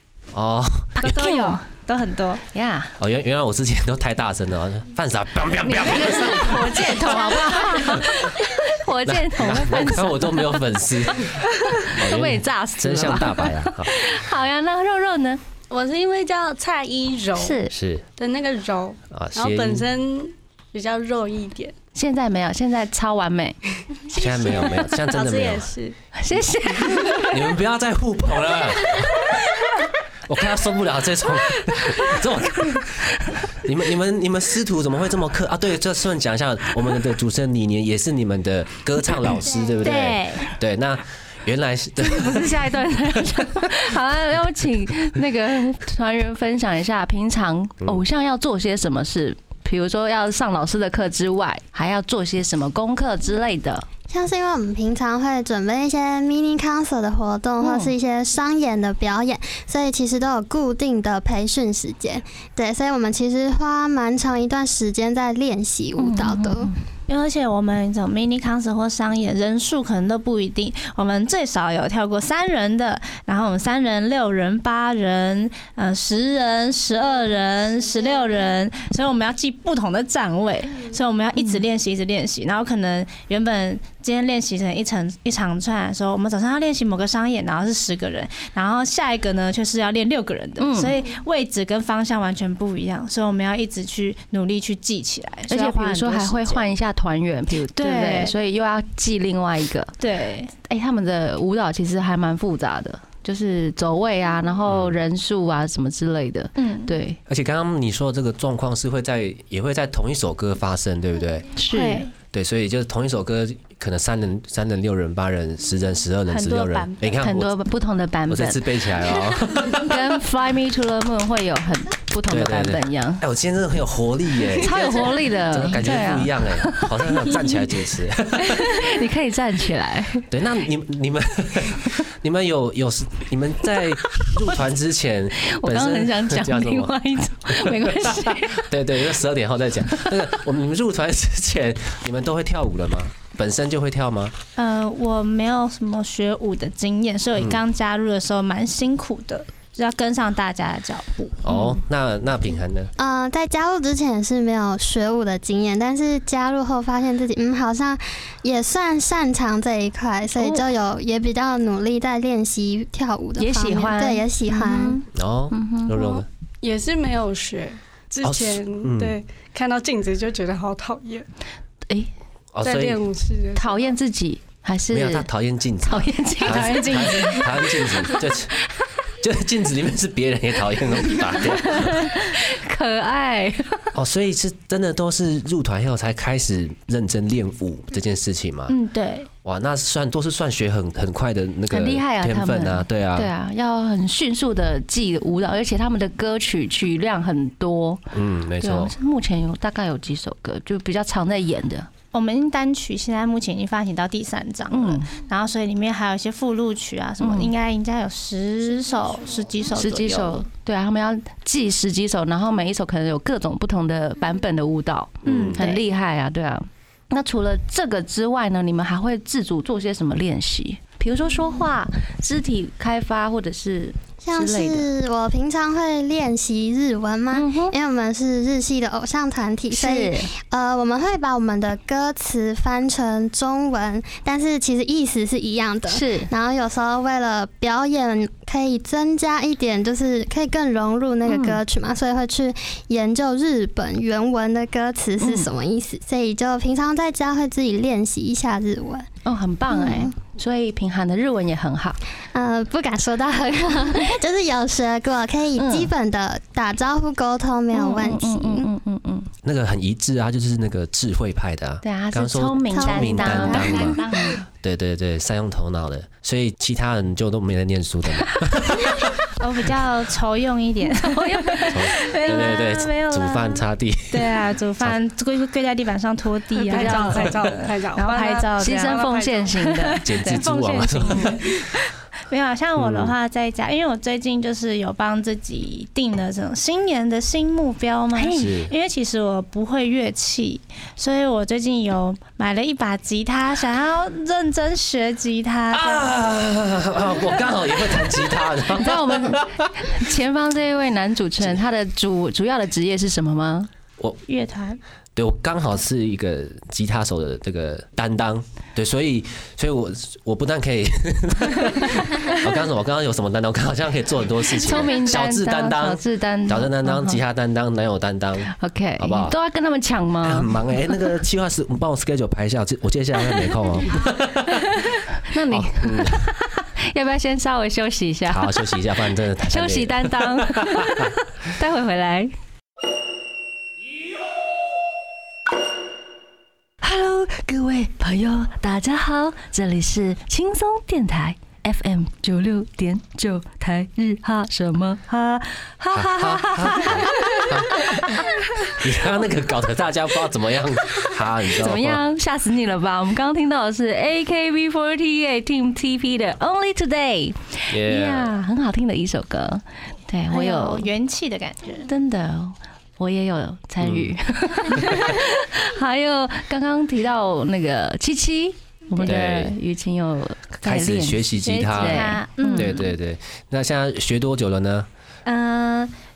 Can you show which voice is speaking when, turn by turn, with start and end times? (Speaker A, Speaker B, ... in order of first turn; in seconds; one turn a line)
Speaker A: 0.3-0.9
Speaker B: 1.0-1.6
Speaker C: 1.0-2.4
Speaker B: 2.5-2.9
Speaker A: 3.0-8.1
Speaker B: 5.6-10.6
Speaker C: 7.1-8.0
Speaker A: 9.0-13.9
Speaker B: 11.8-15.4
Speaker D: 15.7-17.6
Speaker B: 17.4-17.7
Speaker A: 17.7-18.0
Speaker D: 18.2-21.7
Speaker A: 19.1-19.9
Speaker B: 21.9-23.6
Speaker A: 24.1-25.7
Speaker D: 24.2-25.9
Speaker B: 26.2-27.4
Speaker A: 27.3-29.3
Speaker A: 30.3-43.2
Speaker E: 39.4-39.8
Speaker C: 39.8-40.5
Speaker B: 42.0-53.9
Speaker E: 54.1-66.7
Speaker B: 57.6-57.9
Speaker B: 66.0-66.8
Speaker C: 67.1-96.7
Speaker B: 90.6-91.0
Speaker B: 95.5-99.9
Speaker C: 97.8-98.3
Speaker C: 100.0-100.5
Speaker B: 100.7-107.2
Speaker A: 104.7-105.0
Speaker C: 106.6-106.9
Speaker A: 107.3-111.5
Speaker B: 111.6-112.1
Speaker C: 111.7-112.1
Speaker A: 112.3-117.5
Speaker C: 116.3-117.1
Speaker B: 117.2-118.7
Speaker A: 118.3-120.0
Speaker B: 119.8-123.2
Speaker A: 122.3-128.8
Speaker B: 124.6-127.5
Speaker B: 128.4-130.3
Speaker A: 130.3-144.3
Speaker B: 135.4-138.7
Speaker C: 144.6-151.4
Speaker A: 151.4-152.9
Speaker E: 153.0-165.0
Speaker B: 163.4-166.0
Speaker A: 165.1-166.3
Speaker D: 165.9-171.2
Speaker A: 168.2-169.2
Speaker A: 172.5-173.0
Speaker D: 172.6-173.9
Speaker B: 173.5-175.3
Speaker A: 174.9-178.5
Speaker B: 175.8-177.5
Speaker C: 176.4-177.6
Speaker A: 179.2-182.1
Speaker B: 181.6-183.9
Speaker A: 183.9-188.7
Speaker C: 188.7-189.3
Speaker A: 189.4-193.3
Speaker B: 191.7-198.0
Speaker A: 198.1-198.9
Speaker B: 198.6-201.9
Speaker C: 202.1-210.4
Speaker B: 204.7-205.1
Speaker B: 207.2-207.5
Speaker B: 209.7-224.9
Speaker A: 215.2-215.6
Speaker C: 215.2-215.8
Speaker E: 224.2-249.1
Speaker B: 227.3-227.7
Speaker B: 229.7-230.3
Speaker B: 235.9-236.3
Speaker B: 241.3-241.6
Speaker B: 245.2-245.5
Speaker B: 249.2-252.0
Speaker E: 249.7-250.1
Speaker E: 252.3-258.7
Speaker B: 255.6-255.9
Speaker B: 257.7-259.3
Speaker A: 259.4-264.0
Speaker B: 261.8-264.4
Speaker E: 262.8-263.2
Speaker C: 263.2-264.4
Speaker A: 264.6-269.2
Speaker C: 269.4-279.1
Speaker B: 270.9-272.0
Speaker A: 271.7-274.9
Speaker D: 276.6-279.6
Speaker B: 276.7-277.3
Speaker B: 278.6-280.4
Speaker C: 279.6-296.1
Speaker A: 280.0-281.6
Speaker A: 282.8-283.1
Speaker A: 288.2-288.7
Speaker A: 295.7-299.9
Speaker B: 298.7-303.7
Speaker C: 304.3-304.8
Speaker A: 305.1-319.3
Speaker B: 314.6-317.2
Speaker B: 318.6-320.5
Speaker A: 320.2-324.8
Speaker B: 325.3-328.8
Speaker A: 325.5-326.2
Speaker A: 328.3-331.1
Speaker B: 329.4-332.3
Speaker B: 336.8-345.2
Speaker C: 345.1-345.4
Speaker B: 345.7-348.7
Speaker A: 345.9-348.2
Speaker C: 346.8-347.5
Speaker A: 348.8-352.0
Speaker B: 351.5-360.9
Speaker A: 357.7-358.3
Speaker C: 360.3-361.9
Speaker B: 361.8-372.8
Speaker A: 363.8-364.1
Speaker A: 364.8-365.0
Speaker A: 369.0-369.6
Speaker A: 370.6-374.9
Speaker C: 371.4-372.8
Speaker C: 375.2-375.9